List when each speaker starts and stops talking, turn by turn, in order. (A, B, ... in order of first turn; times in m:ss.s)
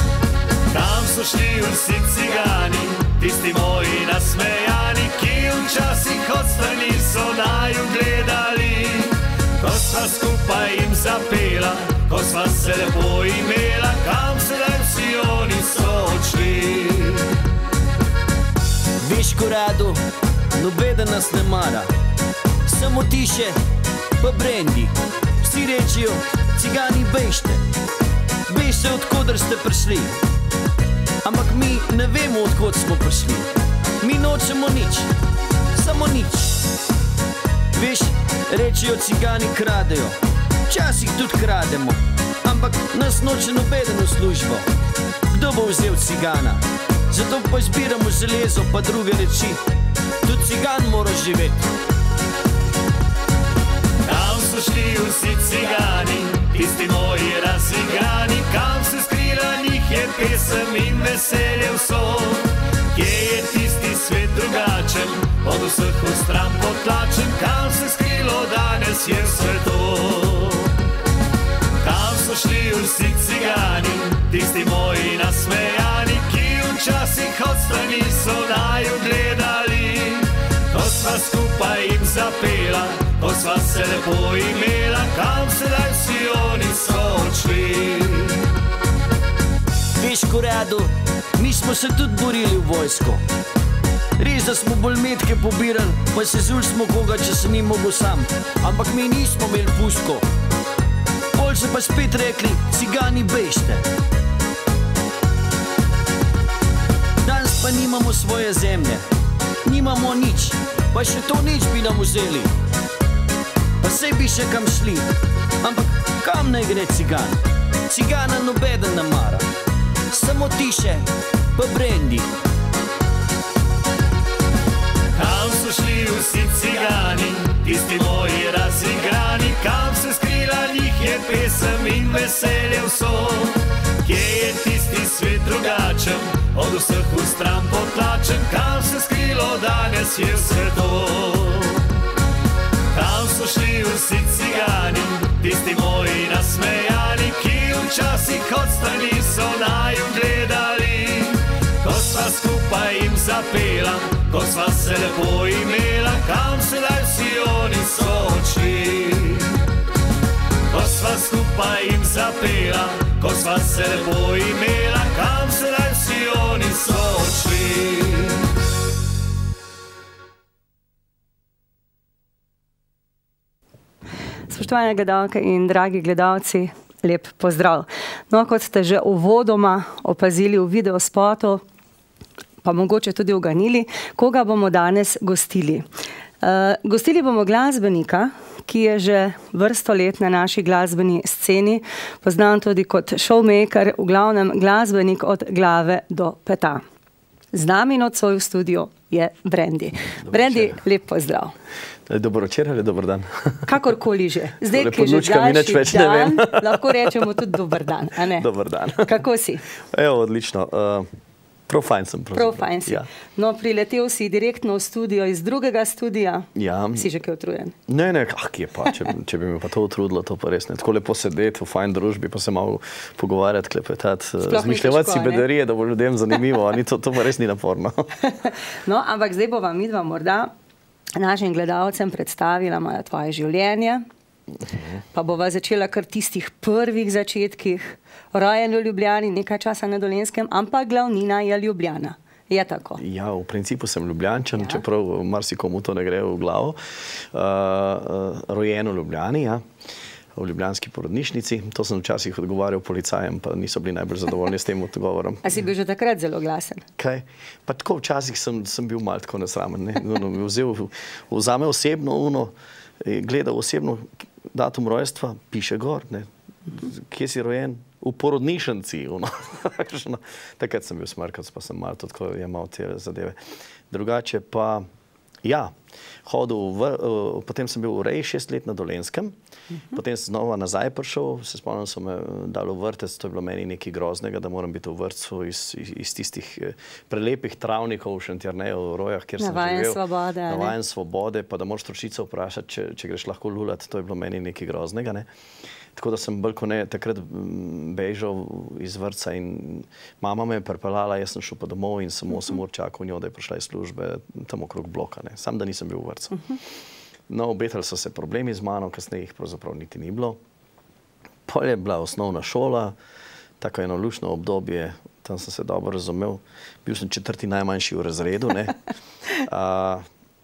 0:00.7-0:17.3 A
0:19.0-0:20.0 B
0:20.6-0:21.9 B
0:22.7-0:23.6 B
0:24.2-0:27.6 B
0:28.5-0:30.2 B
0:31.2-0:33.5 B
0:34.0-0:35.1 B
0:35.8-0:36.6 B
0:37.8-0:40.2 B
0:40.7-0:44.6 B
0:45.3-0:49.6 B
0:50.2-0:51.7 B
0:54.0-1:10.7 A
1:11.8-1:28.4 A
1:30.0-1:33.2 B
1:34.2-1:40.2 B
1:41.4-1:43.9 B
1:47.2-1:49.0 B
1:49.6-1:52.5 B
1:53.8-1:55.1 B
1:55.6-1:59.5 B
2:00.1-2:02.3 B
2:05.2-2:21.8 A
2:22.9-2:39.5 A
2:40.7-2:48.4 A
2:54.5-3:01.6 C
3:02.6-3:05.9 C
3:06.4-3:16.8 C
3:17.5-3:21.5 C
3:20.3-3:20.8 D
3:22.1-3:23.7 D
3:23.7-3:28.5 C
3:24.7-3:27.3 D
3:28.3-3:29.2 D
3:29.0-3:29.6 C
3:29.7-3:31.1 D
3:31.7-3:33.1 D
3:32.3-3:37.8 C
3:36.6-3:37.1 D
3:37.9-3:48.1 D
3:44.4-3:45.4 C
3:48.2-3:50.5 C
3:51.2-3:54.0 C
3:54.7-3:55.0 D
3:55.1-4:03.0 C
4:03.0-4:09.6 D
4:10.4-4:15.6 D
4:15.4-4:16.8 C
4:17.0-4:33.4 D
4:33.9-4:34.9 D
4:35.4-4:39.4 D
4:39.9-4:55.3 D
4:49.4-4:50.8 C
4:56.0-5:06.5 D
5:07.3-5:10.4 D
5:11.5-5:12.9 D
5:13.6-5:18.8 D
5:19.4-5:20.0 D